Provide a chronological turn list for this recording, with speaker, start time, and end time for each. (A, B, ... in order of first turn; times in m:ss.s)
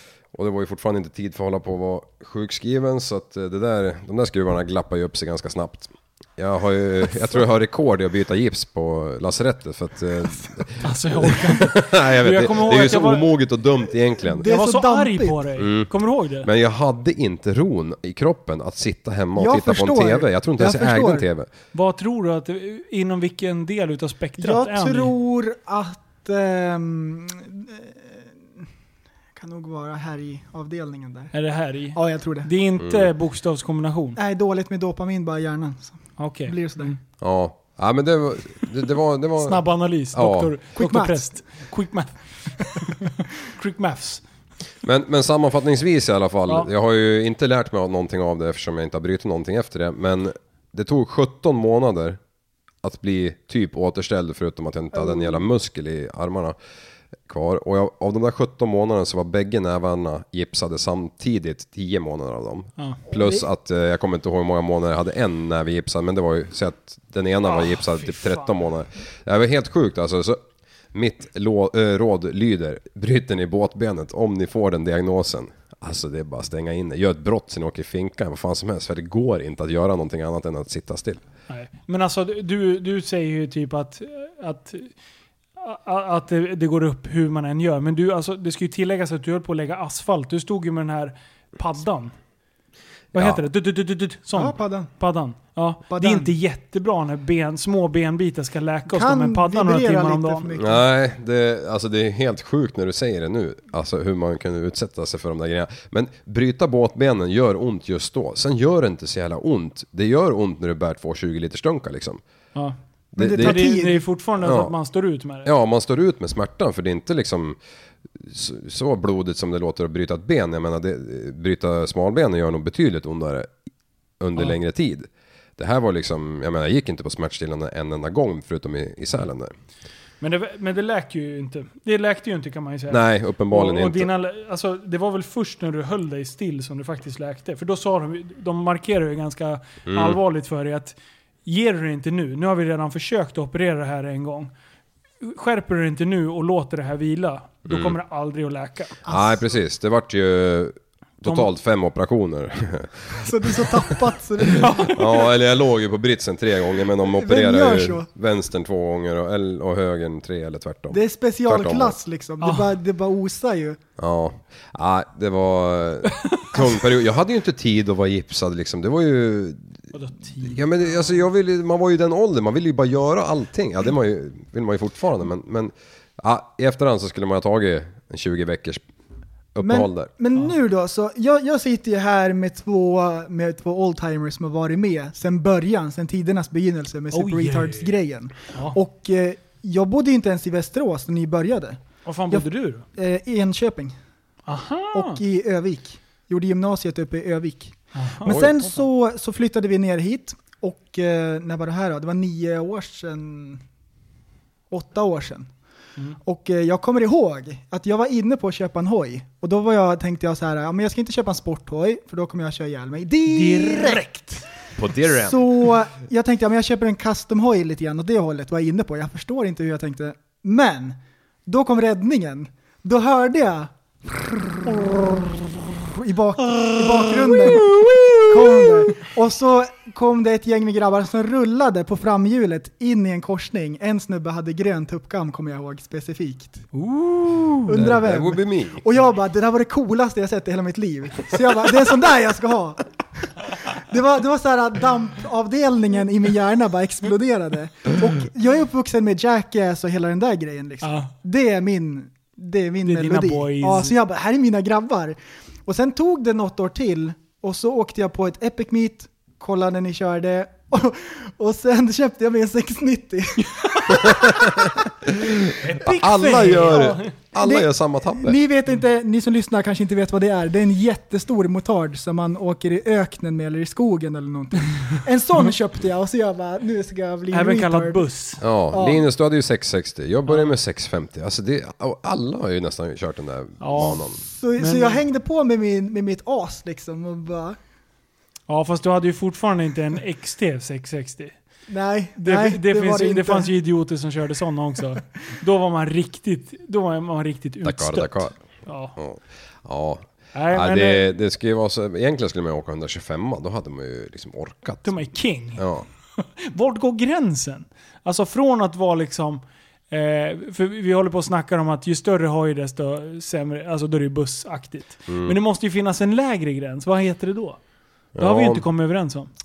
0:00.3-0:14.5 A
0:10.8-0:13.3 B
0:14.2-0:15.4 C
0:14.4-0:16.5 B
0:15.6-0:15.9 A
0:16.4-0:21.5 A
0:19.4-0:21.3 C
0:21.7-0:25.1 B
0:24.4-0:28.3 C
0:29.4-0:31.3 C
0:31.3-0:34.2 B
0:31.9-0:32.5 C
0:32.8-0:33.1 A
0:34.2-0:36.9 C
0:36.2-0:37.0 B
0:37.2-0:40.6 A
0:39.4-0:44.2 B
0:40.8-0:41.3 C
0:44.8-0:52.2 A
0:52.8-0:56.6 A
0:55.0-0:55.4 C
0:57.3-1:10.4 A
1:03.1-1:03.4 C
1:07.5-1:08.5 B
1:10.9-1:21.2 A
1:21.5-1:24.9 B
1:25.6-1:32.1 B
1:33.1-1:40.5 B
1:33.1-1:33.4 A
1:34.4-1:34.9 C
1:35.9-1:36.3 C
1:38.9-1:40.9 C
1:40.6-1:52.2 A
1:53.1-1:53.8 A
1:53.2-1:54.0 C
1:53.3-1:55.5 B
1:54.4-1:54.7 A
1:55.4-1:57.6 A
1:58.2-2:03.5 A
2:04.2-2:09.5 A
2:10.2-2:24.5 B
2:12.9-2:14.1 A
2:19.9-2:20.2 A
2:25.2-2:29.0 B
2:27.6-2:28.0 A
2:29.0-2:29.4 C
2:29.1-2:33.9 A
2:31.2-2:31.5 B
2:33.2-2:35.0 C
2:34.5-2:42.0 A
2:34.6-2:35.1 B
2:37.0-2:38.1 C
2:40.9-2:43.8 C
2:42.4-2:42.8 B
2:44.0-2:49.7 A
2:46.2-2:46.6 B
2:49.9-2:51.2 B
2:50.4-2:58.8 A
2:59.5-3:00.1 A
2:59.6-3:11.8 C
3:07.1-3:08.0 B
3:12.0-3:12.8 B
3:12.3-3:14.0 C
3:14.5-3:15.2 B
3:14.9-3:23.6 C
3:17.9-3:18.8 B
3:24.7-3:25.5 C
3:26.2-3:34.0 C
3:33.3-3:34.4 B
3:34.8-3:35.5 A
3:35.0-3:47.8 C
3:46.5-3:48.7 B
3:48.3-3:56.6 C
3:56.7-3:57.9 B
3:57.7-4:24.7 C
3:57.7-3:58.8 A
4:10.8-4:11.1 B
4:12.8-4:14.0 B
4:23.6-4:23.9 B
4:23.9-4:28.4 A
4:25.5-4:27.1 B
4:27.4-4:38.0 C
4:37.3-4:38.4 B
4:38.4-4:44.2 A
4:38.7-4:39.1 C
4:43.6-4:44.1 B
4:44.2-4:47.6 C
4:44.6-4:45.0 B
4:48.5-4:51.3 B
4:51.7-4:53.5 C
4:52.2-4:59.0 B
4:57.6-4:58.4 A
4:59.0-5:04.9 A
5:00.3-5:01.1 B
5:04.8-5:05.6 B
5:05.6-5:05.9 A
5:06.2-5:17.6 B
5:15.1-5:15.4 A
5:18.2-5:18.6 A
5:18.2-5:19.3 B